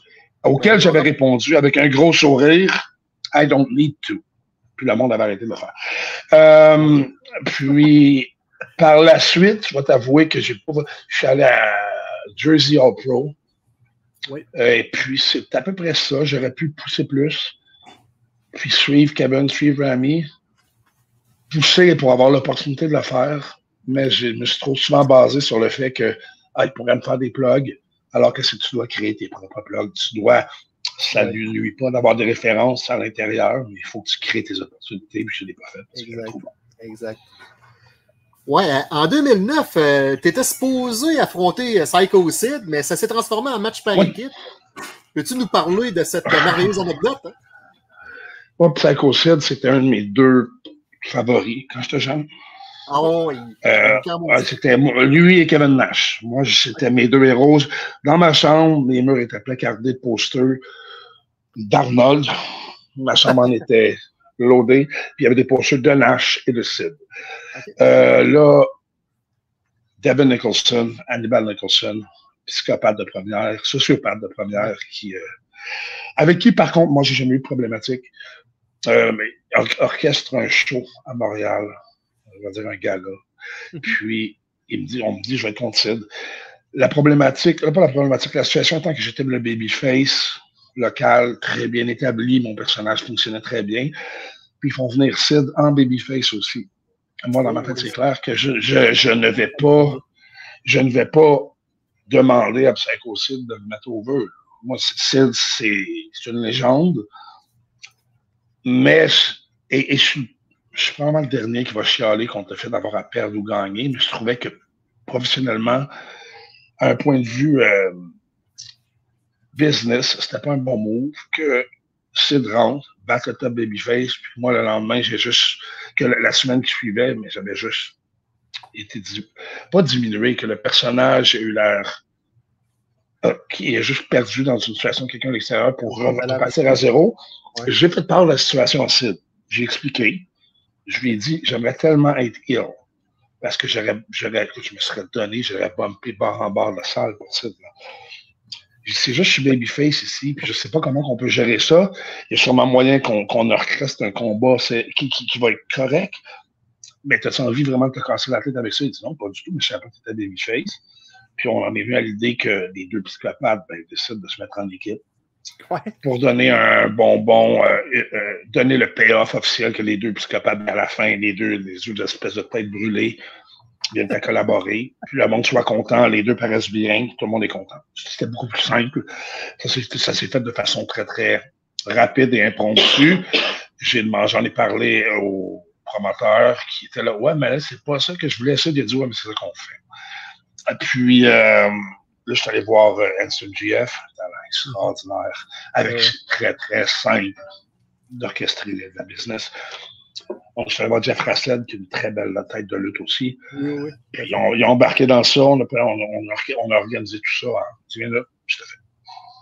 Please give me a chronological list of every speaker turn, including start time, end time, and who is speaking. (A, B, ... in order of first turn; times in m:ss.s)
0:00.4-0:02.7 A
0:00.6-0:01.0 B
0:03.3-0:04.2 A
0:04.8-0:05.7 A
0:06.3-0:13.4 A
0:14.5-0:17.5 A
0:18.5-0:20.3 A
0:21.5-0:30.5 A
0:31.0-0:36.5 A
0:36.0-0:37.3 B
0:38.5-0:44.3 C
0:45.2-0:47.4 C
0:48.6-0:50.5 A
0:51.0-0:52.3 A
0:52.9-0:54.4 C
0:53.6-1:00.6 A
1:01.6-1:02.4 A
1:03.0-1:07.0 A
1:07.8-1:08.7 A
1:10.0-1:15.2 A
1:16.2-1:18.1 A
1:18.8-1:21.7 A
1:22.3-1:23.2 A
1:23.8-1:26.1 A
1:26.7-1:33.9 A
1:34.6-1:36.7 A
1:37.2-1:40.0 A
1:37.4-1:37.9 B
1:39.6-1:40.0 B
1:40.6-1:41.6 A
1:42.1-1:47.0 A
1:48.6-1:55.9 A
1:56.8-1:58.2 A
1:59.5-2:08.0 A
2:08.7-2:12.0 A
2:13.2-2:20.3 A
2:15.9-2:16.8 B
2:20.9-2:22.8 A
2:23.4-2:27.6 A
2:28.8-2:36.2 A
2:37.0-2:40.8 A
2:41.4-2:45.0 A
2:45.7-2:46.0 B
2:46.0-2:53.2 A
2:53.9-2:59.1 A
2:59.6-3:09.8 A
3:10.7-3:17.4 A
3:15.9-3:16.2 B
3:18.1-3:19.5 A
3:20.6-3:23.4 A
3:23.5-3:24.0 B
3:24.1-3:28.8 A